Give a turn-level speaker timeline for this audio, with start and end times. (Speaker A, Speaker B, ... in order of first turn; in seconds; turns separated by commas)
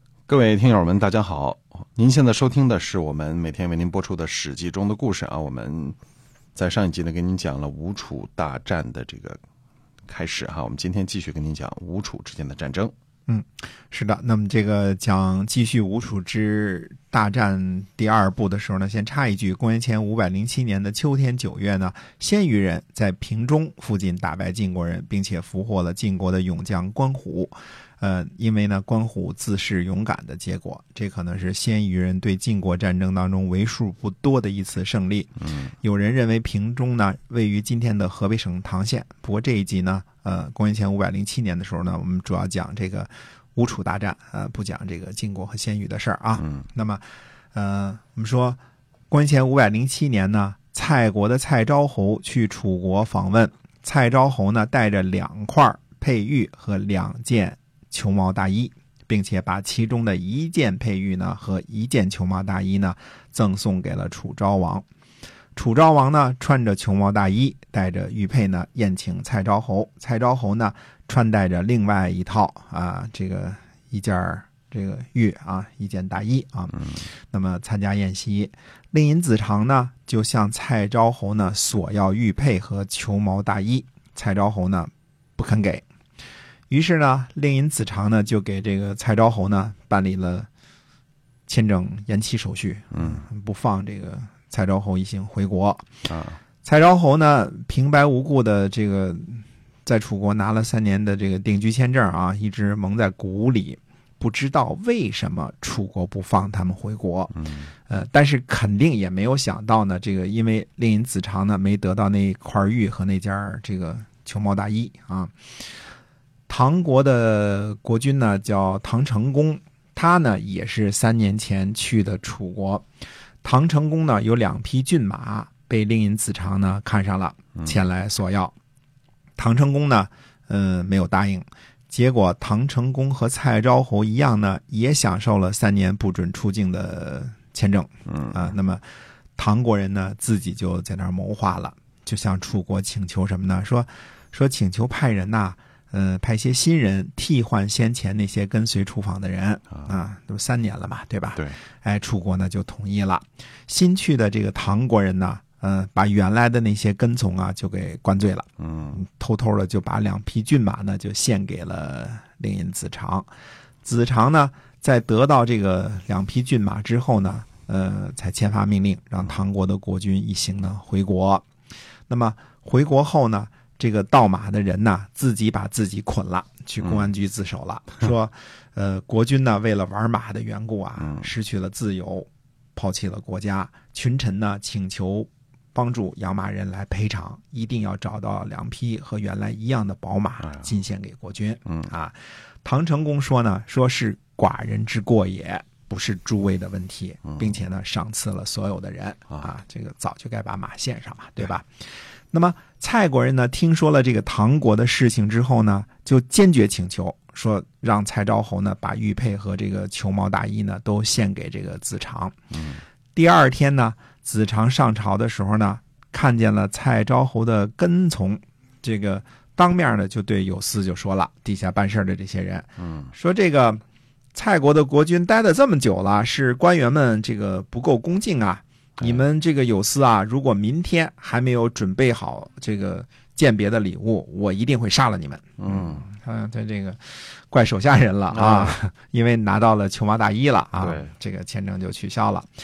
Speaker A: 0.3-6.0, Speaker A: 6.5-9.4, Speaker A: 10.1-12.9, Speaker B: 13.3-47.0, Speaker B: 47.5-48.6, Speaker B: 49.1-64.8, Speaker B: 65.5-85.8, Speaker B: 86.7-90.5, Speaker B: 91.5-95.9, Speaker A: 92.9-93.2, Speaker A: 96.1-96.4, Speaker B: 96.6-115.3, Speaker A: 107.4-107.7, Speaker B: 116.5-122.8, Speaker B: 123.4-128.6, Speaker B: 129.4-138.8, Speaker A: 138.1-138.4, Speaker B: 139.4-163.3, Speaker A: 158.6-159.0, Speaker B: 163.8-171.4, Speaker B: 172.1-201.7, Speaker B: 202.3-212.3, Speaker A: 212.5-212.8, Speaker B: 213.1-223.8, Speaker A: 222.8-223.1, Speaker B: 224.3-242.5, Speaker A: 235.6-236.1, Speaker A: 238.3-238.8, Speaker A: 240.8-241.1